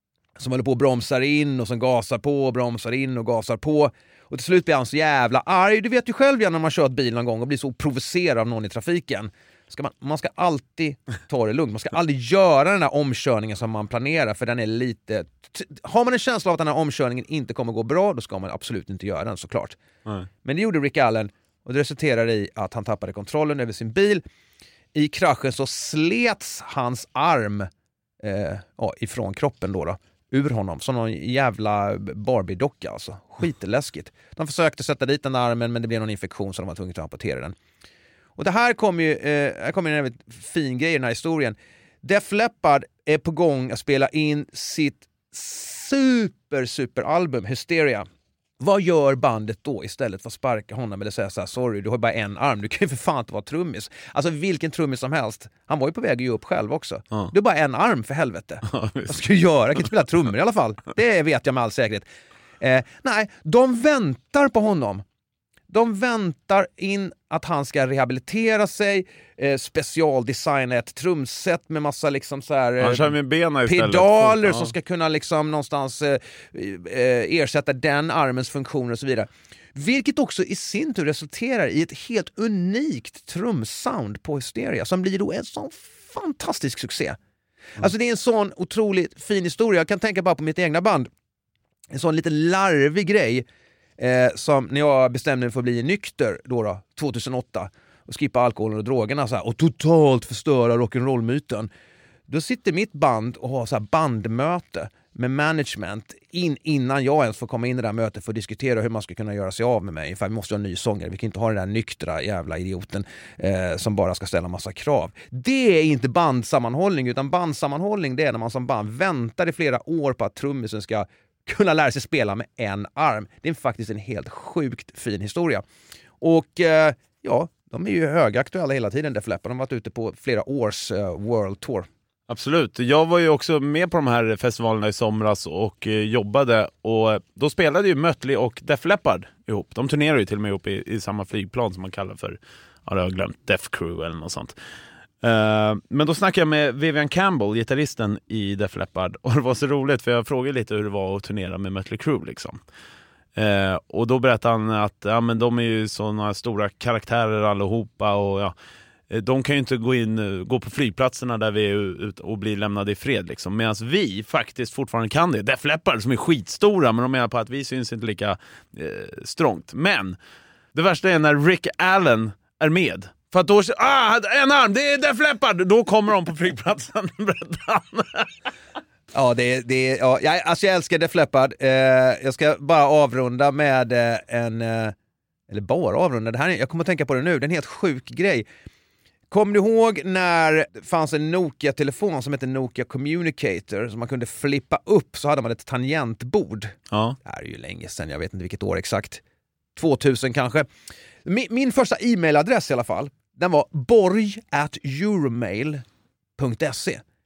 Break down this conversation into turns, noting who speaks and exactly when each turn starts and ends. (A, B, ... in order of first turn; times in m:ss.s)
0:00.4-0:19.8 A
0:20.4-0:24.2 A
0:24.9-0:27.7 A
0:28.2-0:37.5 A
0:38.4-0:48.1 A
0:48.6-1:02.1 A
0:58.6-0:59.2 B
1:02.6-1:05.0 A
1:05.7-1:27.2 A
1:12.8-1:14.7 B
1:27.8-1:31.1 A
1:31.9-1:33.4 A
1:34.0-1:41.7 A
1:42.3-2:05.6 A
2:06.2-2:11.9 A
2:12.3-2:24.6 B
2:25.2-2:32.6 B
2:33.4-2:38.5 B
2:39.1-2:50.2 B
2:50.7-2:58.3 B
2:59.1-3:04.9 A
3:05.5-3:08.4 A
3:09.3-3:19.2 A
3:16.9-3:17.2 B
3:19.8-3:20.7 A
3:21.2-3:25.8 A
3:26.4-3:27.0 A